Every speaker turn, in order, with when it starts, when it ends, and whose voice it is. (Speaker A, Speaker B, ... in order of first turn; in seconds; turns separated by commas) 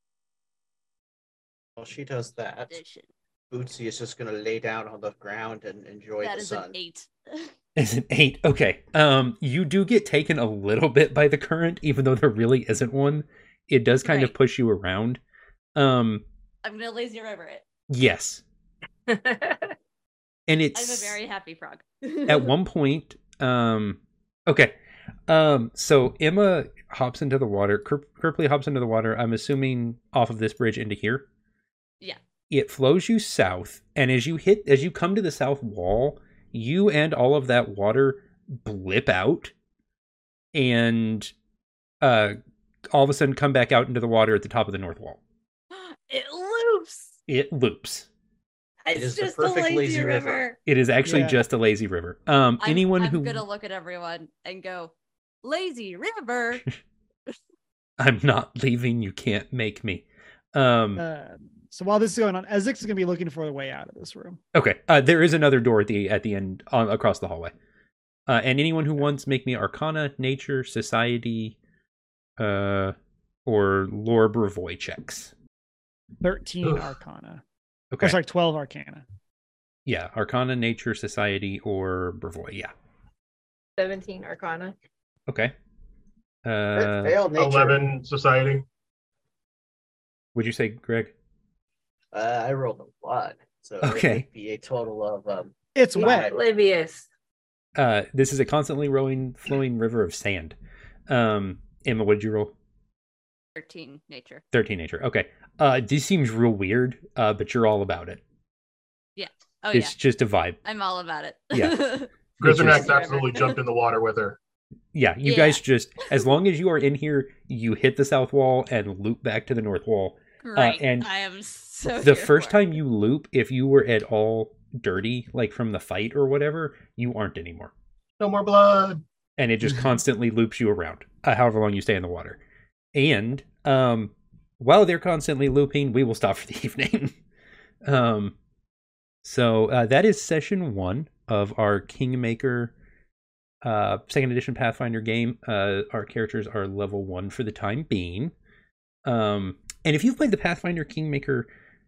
Speaker A: 1.8-2.7, Speaker B: 2.7-3.1, Speaker A: 3.5-6.7, Speaker B: 6.2-7.5, Speaker C: 7.8-15.2, Speaker B: 14.0-14.3, Speaker C: 15.8-16.2, Speaker B: 16.6-17.6, Speaker C: 17.9-18.4, Speaker D: 19.1-19.7, Speaker C: 20.5-21.2, Speaker B: 20.7-22.5, Speaker C: 22.3-24.7, Speaker C: 25.3-31.2, Speaker C: 32.5-39.5, Speaker C: 40.5-41.3, Speaker C: 42.0-42.4, Speaker C: 42.9-45.2, Speaker B: 45.7-47.1, Speaker C: 47.3-48.1, Speaker B: 48.8-50.6, Speaker A: 48.9-50.4, Speaker C: 50.7-53.4, Speaker E: 51.0-51.4, Speaker B: 52.6-56.6, Speaker C: 58.0-61.0, Speaker E: 61.0-64.4, Speaker C: 64.5-67.5, Speaker C: 68.3-71.6, Speaker C: 72.4-72.9, Speaker C: 73.5-75.3, Speaker E: 76.2-77.4, Speaker C: 77.9-78.2, Speaker E: 78.0-79.0, Speaker C: 79.8-82.7, Speaker D: 83.8-84.8, Speaker C: 85.3-85.5, Speaker C: 86.4-87.2, Speaker A: 86.7-87.9, Speaker F: 87.4-88.6, Speaker C: 90.3-91.1, Speaker A: 92.1-96.3, Speaker C: 93.8-94.2, Speaker E: 95.7-96.3, Speaker D: 95.9-97.1, Speaker C: 97.8-100.5, Speaker C: 101.1-102.5, Speaker B: 103.6-104.4, Speaker C: 104.5-108.2, Speaker B: 109.2-109.9, Speaker C: 109.7-110.6, Speaker B: 110.6-113.6, Speaker F: 112.4-114.4, Speaker C: 112.4-112.9, Speaker C: 114.9-121.1, Speaker B: 115.2-115.6, Speaker B: 120.4-122.8, Speaker C: 122.0-127.7, Speaker F: 128.2-129.0, Speaker C: 129.4-132.4, Speaker C: 132.9-137.1, Speaker C: 137.8-138.3, Speaker C: 139.2-142.7, Speaker C: 143.6-148.3, Speaker C: 149.1-151.5